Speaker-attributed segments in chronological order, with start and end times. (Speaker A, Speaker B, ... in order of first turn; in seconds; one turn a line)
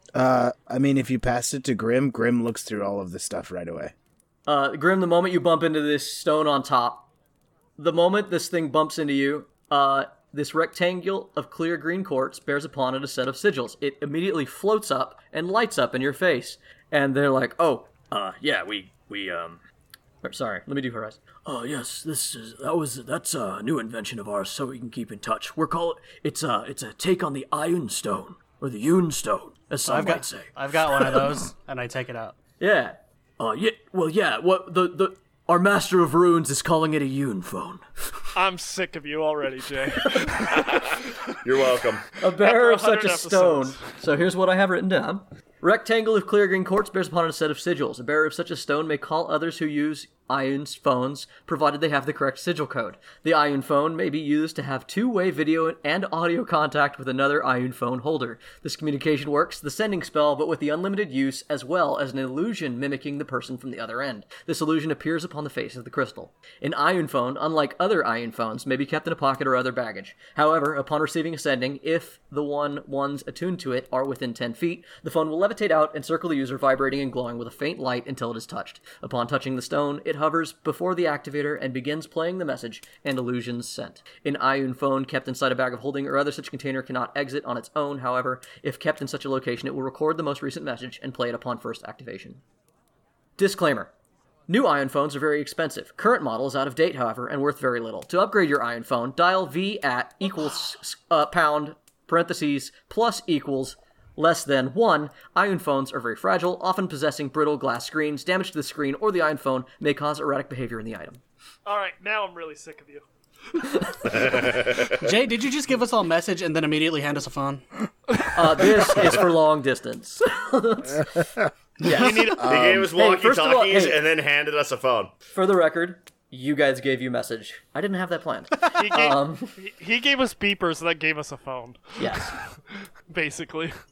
Speaker A: 0.1-3.9
Speaker B: 4.5-7.1
Speaker B: 7.8-19.6
Speaker B: 20.2-31.3
Speaker C: 29.8-32.4
Speaker B: 32.6-37.8
Speaker D: 38.3-40.9
Speaker B: 40.0-40.7
Speaker E: 41.3-42.1
Speaker B: 42.2-92.4
Speaker D: 42.4-43.8
Speaker B: 93.4-93.9
Speaker B: 94.5-111.2
Speaker D: 111.7-114.0
Speaker E: 114.0-115.0
Speaker C: 114.3-117.7
Speaker B: 118.3-121.2
Speaker B: 121.8-124.0
Speaker D: 121.9-122.5
Speaker A: 122.1-122.9
Speaker E: 122.4-125.1
Speaker B: 125.3-129.6
Speaker D: 128.6-132.5
Speaker B: 132.0-132.3
Speaker D: 133.1-133.7